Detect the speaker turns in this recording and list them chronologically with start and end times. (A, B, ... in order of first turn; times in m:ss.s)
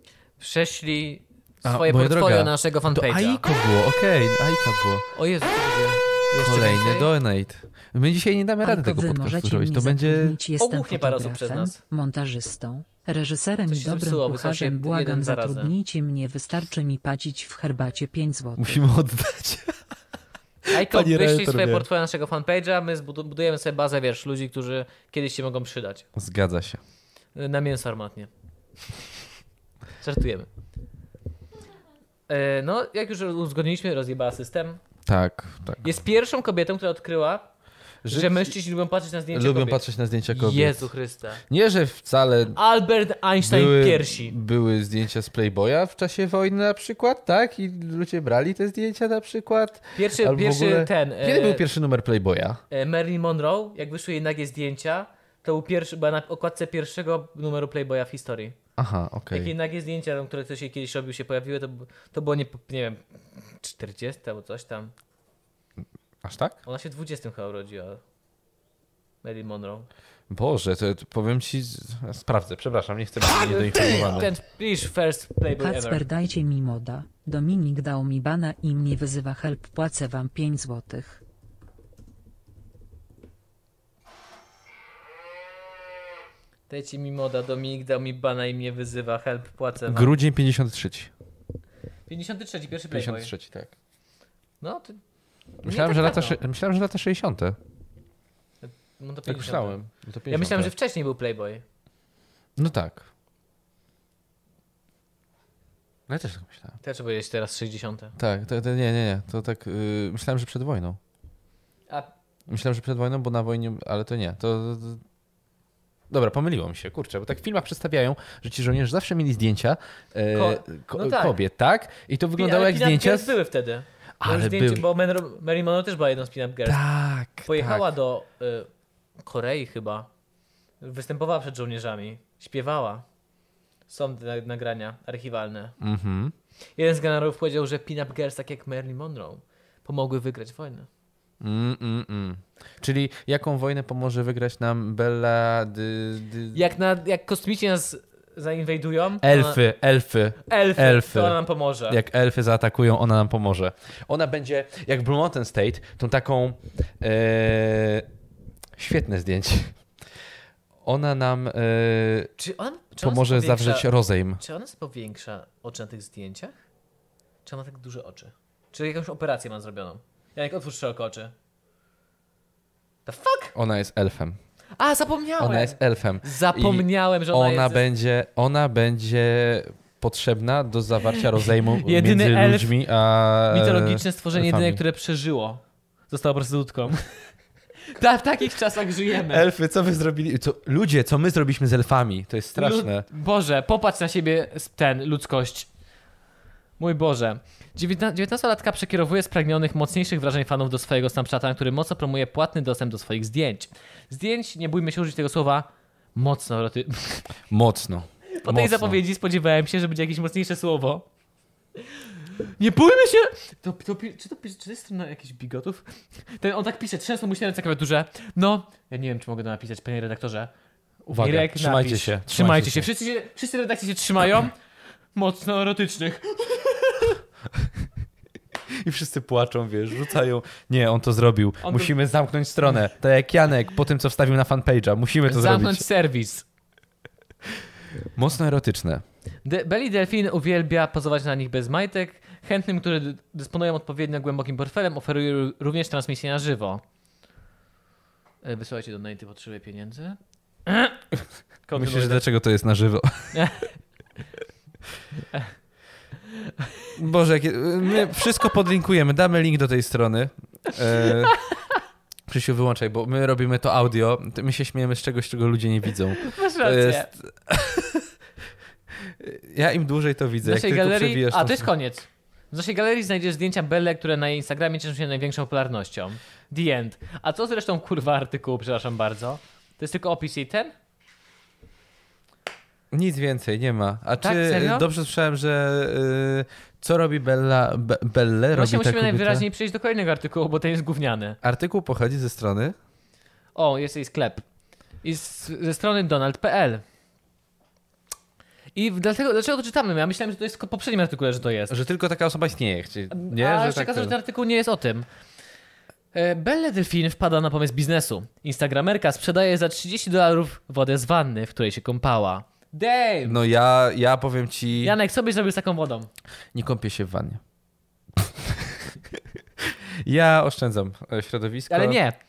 0:00.4-0:03.4 A
0:01.6-0:05.0 B
0:05.1-0:07.1 A
0:06.3-0:10.4 B
0:08.6-0:18.8 C
0:10.6-0:11.8 A
0:13.7-0:15.7 A
0:18.6-0:19.7 B
0:20.7-0:26.1 A
0:20.7-0:21.8 B
0:26.2-0:26.8 B
0:27.3-0:28.3 A
0:30.0-0:30.5 A
0:32.3-0:34.8 A
0:35.0-0:36.0 B
0:35.8-0:37.5 A
0:38.0-0:38.6 B
0:38.0-0:41.4 A
0:39.3-0:40.9 B
0:41.5-0:42.6 B
0:42.5-0:44.4 A
0:43.4-0:52.6 B
0:50.0-0:51.6 A
0:52.7-0:58.6 A
0:58.8-0:59.5 B
0:59.3-1:04.9 A
1:06.2-1:06.6 B
1:06.6-1:08.0 A
1:09.2-1:09.9 A
1:10.3-1:14.3 B
1:13.2-1:16.0 A
1:15.6-1:21.2 C
1:26.7-1:30.1 A
1:29.9-1:31.1 B
1:32.1-1:33.3 A
1:32.9-1:33.7 B
1:34.6-1:35.0 A
1:35.6-1:37.6 B
1:35.6-1:36.4 A
1:38.6-1:39.8 A
1:39.2-1:40.7 B
1:40.3-1:41.6 A
1:42.6-1:43.1 B
1:46.1-1:46.8 B
1:46.8-1:48.1 A
1:48.2-1:51.0 B
1:52.5-1:55.0 B
1:56.1-2:03.4 B
2:00.3-2:01.4 A
2:02.4-2:06.8 A
2:04.2-2:04.8 B
2:06.6-2:07.9 B
2:07.4-2:10.1 A
2:10.8-2:13.0 A
2:13.9-2:15.8 A
2:15.8-2:16.3 B
2:16.8-2:20.9 A
2:21.4-2:26.6 B
2:26.5-2:29.6 A
2:29.2-2:38.1 B
2:30.4-2:32.0 A
2:38.8-2:39.8 B
2:40.8-2:42.3 B
2:42.4-2:46.5 A
2:43.0-2:44.4 B
2:47.4-2:51.3 A
2:53.0-2:53.5 A
2:53.5-2:54.4 B
2:54.8-2:57.8 A
2:55.4-3:04.8 B
3:01.6-3:02.7 A
3:03.5-3:07.0 A
3:07.9-3:09.4 A
3:09.2-3:13.1 B
3:12.5-3:15.7 A
3:16.8-3:27.3 A
3:27.5-3:29.0 B
3:28.3-3:31.0 A
3:32.6-3:40.5 A
3:41.0-3:42.9 B
3:41.2-3:44.5 A
3:45.1-3:47.2 A
3:48.8-3:55.8 B
3:51.6-3:51.9 A
3:55.3-3:56.4 A
3:58.1-3:59.0 B
3:59.4-4:06.8 A
4:08.4-4:11.0 A
4:11.6-4:12.2 A
4:11.8-4:13.4 B
4:13.3-4:13.7 A
4:16.6-4:16.9 A
4:16.9-4:21.4 B
4:21.0-4:21.8 A
4:22.3-4:28.1 B
4:26.2-4:27.1 A
4:29.0-4:31.7 B
4:30.4-4:40.7 A
4:42.9-4:49.4 B
4:44.2-4:44.9 A
4:48.5-4:51.4 A
4:51.4-4:52.7 B
4:53.5-4:54.4 A
4:55.0-4:56.8 A
4:58.7-5:01.7 A
5:01.7-5:04.2 B
5:03.1-5:05.1 A
5:06.1-5:13.4 A
5:13.2-5:14.9 B
5:14.8-5:16.1 A
5:16.5-5:17.4 B
5:18.1-5:22.0 B
5:21.7-5:22.2 A